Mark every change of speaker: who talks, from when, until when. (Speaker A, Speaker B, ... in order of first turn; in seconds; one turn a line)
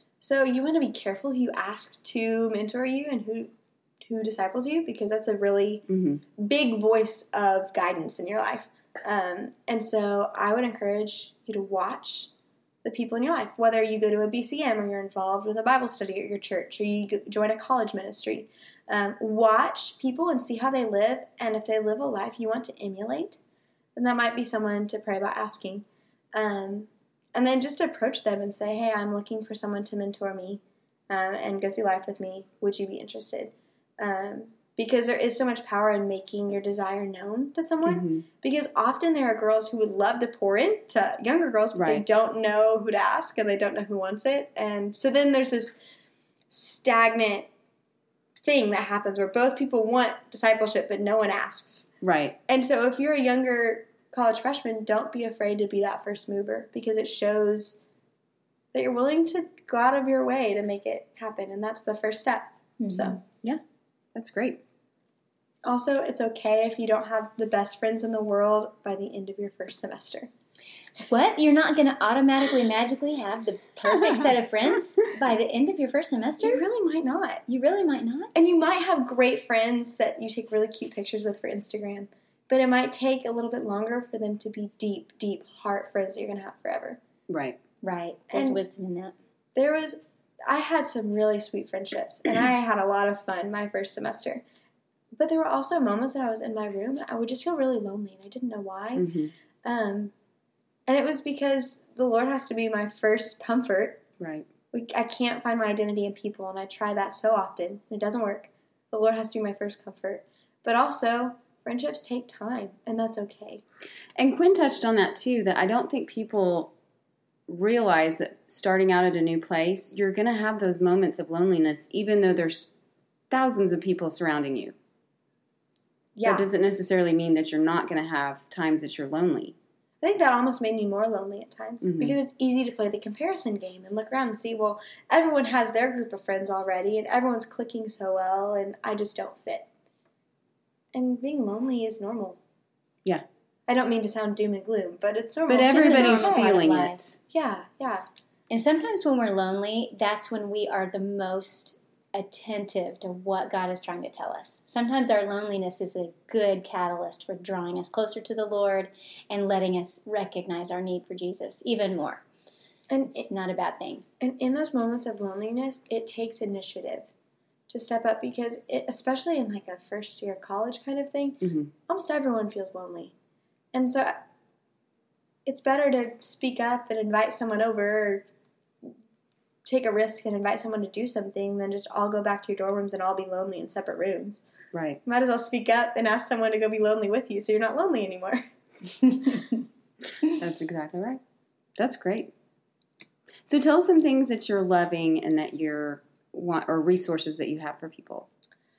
Speaker A: 0.2-5.8
Speaker B: 5.9-6.2
Speaker A: 6.3-12.3
Speaker A: 12.8-23.4
Speaker A: 23.9-45.8
Speaker B: 37.9-38.2
Speaker B: 41.7-42.0
Speaker A: 46.5-47.5
Speaker A: 48.4-51.9
Speaker B: 52.0-52.4
Speaker A: 52.5-57.8
Speaker A: 58.7-63.2
Speaker C: 62.8-63.2
Speaker B: 64.1-64.6
Speaker A: 65.6-70.3
Speaker C: 71.1-76.6
Speaker A: 76.4-77.4
Speaker C: 77.5-78.3
Speaker A: 78.3-87.0
Speaker B: 87.3-87.6
Speaker C: 87.8-89.1
Speaker A: 88.3-88.6
Speaker A: 89.5-94.4
Speaker A: 95.2-99.1
Speaker B: 99.0-99.3
Speaker A: 99.6-100.1
Speaker A: 100.9-104.0
Speaker B: 104.2-104.5
Speaker A: 104.7-113.6
Speaker B: 114.2-116.7
Speaker B: 117.5-122.7
Speaker B: 123.3-124.7
Speaker A: 126.2-126.5
Speaker B: 126.2-129.6
Speaker A: 130.0-139.7
Speaker B: 131.8-132.1
Speaker A: 140.9-142.4
Speaker A: 143.7-146.4
Speaker B: 145.5-147.2
Speaker C: 145.6-147.0
Speaker A: 147.3-148.1
Speaker C: 148.5-162.2
Speaker A: 162.9-163.3
Speaker C: 163.1-164.0
Speaker A: 164.2-167.1
Speaker A: 167.7-173.1
Speaker B: 171.4-171.7
Speaker A: 173.7-174.1
Speaker A: 175.4-178.2
Speaker A: 179.6-184.4
Speaker B: 184.7-185.0
Speaker A: 185.0-188.4
Speaker B: 190.2-191.2
Speaker B: 191.8-192.3
Speaker B: 193.4-198.3